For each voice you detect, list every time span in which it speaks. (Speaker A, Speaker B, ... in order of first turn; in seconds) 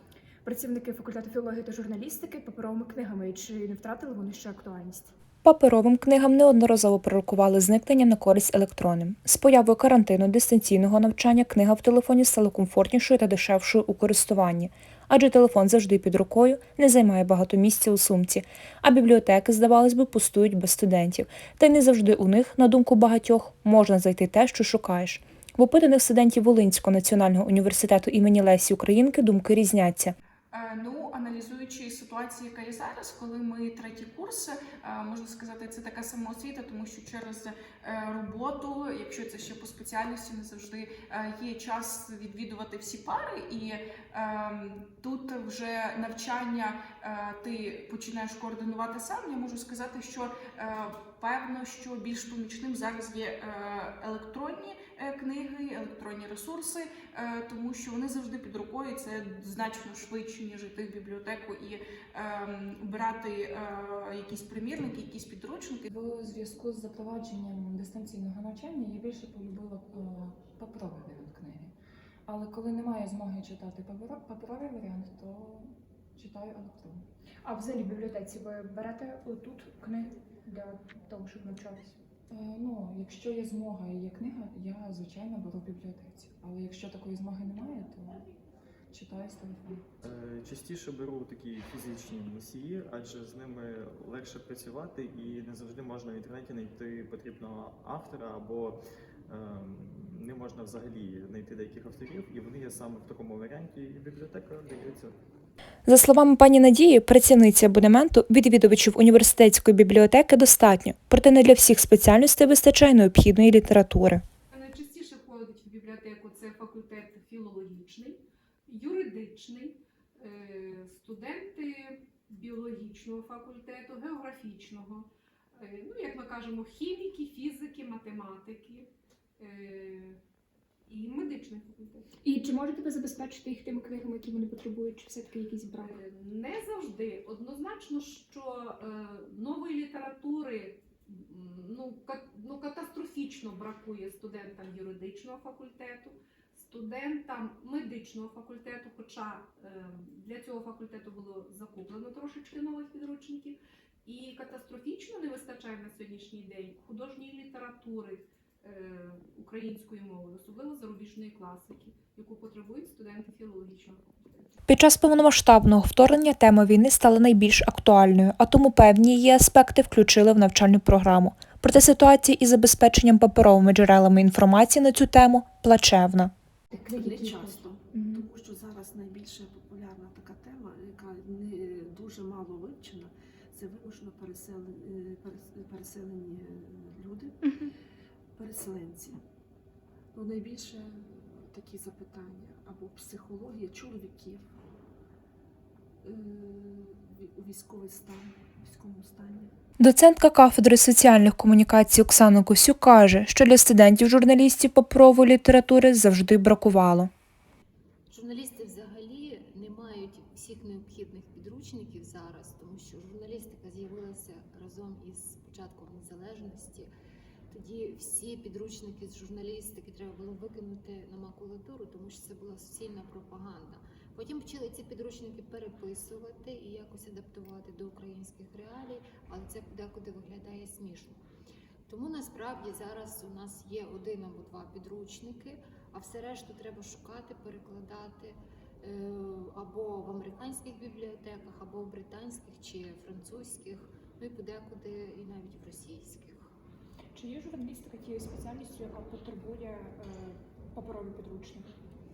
Speaker A: 0.4-5.1, 77.5-82.0, 132.2-136.0, 176.7-178.3, 247.2-251.7
Speaker B: 5.4-30.1, 105.9-114.2, 164.7-176.3, 199.8-207.1
Speaker C: 30.5-65.9
Speaker D: 65.9-71.7, 72.3-77.0, 82.3-88.3, 88.9-89.9
Speaker E: 90.0-105.2
Speaker F: 114.5-130.2, 130.9-132.1, 135.8-164.5
Speaker G: 176.9-187.7, 188.4-189.2, 190.1-194.6, 196.0-199.5
Speaker H: 208.1-216.9, 217.5-231.2, 231.9-246.5